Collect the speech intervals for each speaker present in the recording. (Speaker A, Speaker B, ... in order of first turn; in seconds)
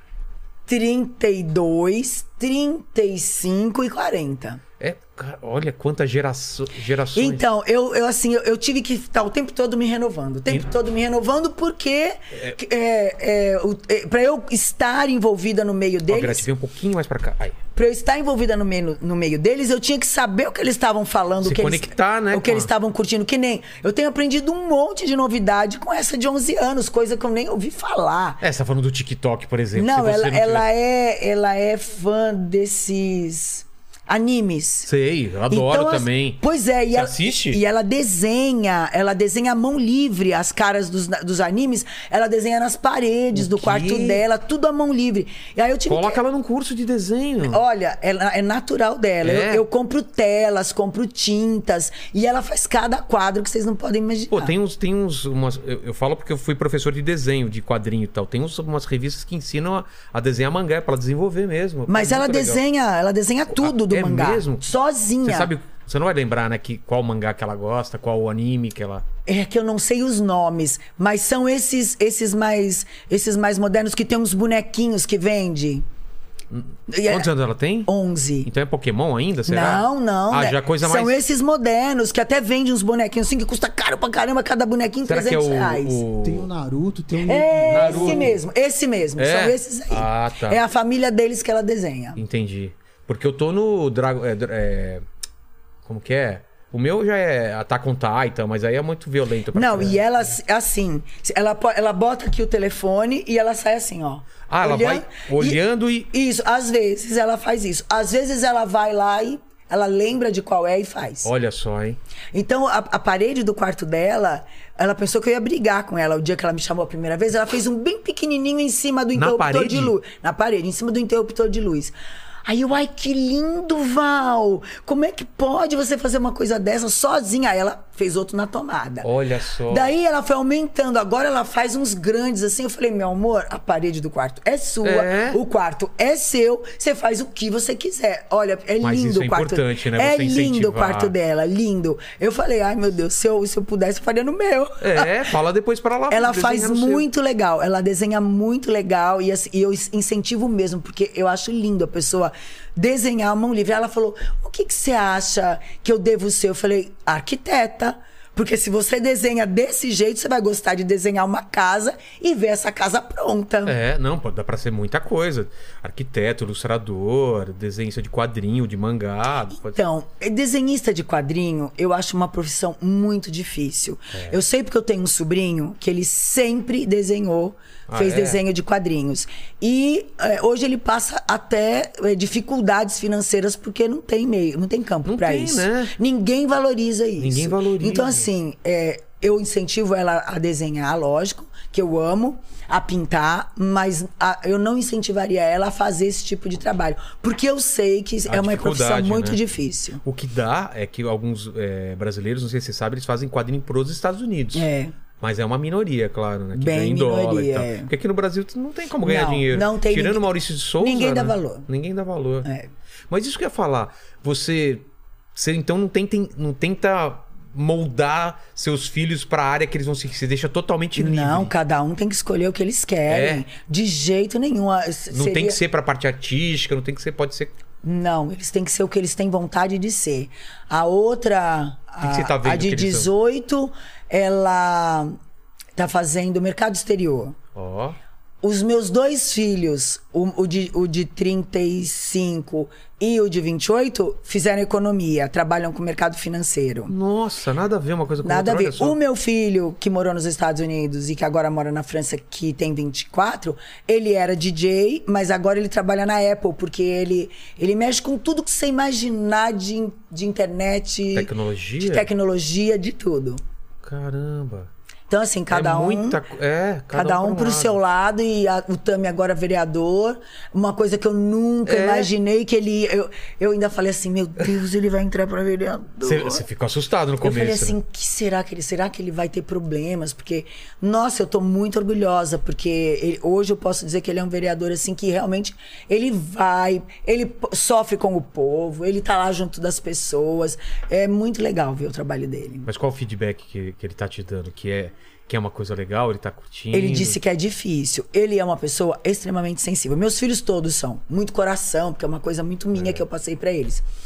Speaker A: 0.7-4.6, 7.1-16.4, 17.7-28.4, 29.7-34.9, 35.5-46.2, 47.4-54.5, 61.9-65.5, 69.2-75.8, 76.9-77.3, 77.8-78.5, 79.5-86.0, 87.2-92.2, 99.5-111.3, 112.3-121.9, 122.5-129.1, 129.7-145.1, 146.1-163.7, 169.6-200.0, 204.5-204.9, 206.5-207.9, 209.0-211.7, 212.4-212.7, 220.9-225.6, 227.8-235.2, 235.8-237.3, 238.4-246.9, 248.2-263.4, 265.1-266.2, 266.9-276.4, 277.2-292.7, 296.7-303.8
Speaker B: 4.8-7.5, 16.1-17.6, 21.4-22.7, 28.4-30.6, 34.9-36.4, 36.9-37.6, 43.3-44.2, 45.9-47.6, 49.2-49.6, 54.3-62.6, 63.5-69.0, 76.5-77.9, 78.4-81.2, 85.0-86.5, 87.7-88.4, 89.2-90.6, 92.2-95.0, 95.8-100.0, 104.5-106.1, 111.2-112.0, 119.1-119.9, 129.0-129.9, 134.8-135.4, 138.8-141.1, 144.8-147.0, 163.7-169.8, 177.9-178.4, 185.1-185.9, 187.2-188.3, 198.3-199.4, 200.0-204.7, 205.2-212.5, 213.1-221.5, 223.1-223.4, 225.1-227.5, 232.0-233.1, 237.5-238.0, 246.9-249.0, 261.1-262.1, 263.8-264.7, 265.5-267.8, 271.6-272.1, 276.0-277.8, 292.6-297.2, 302.8-303.0
Speaker C: 86.2-88.3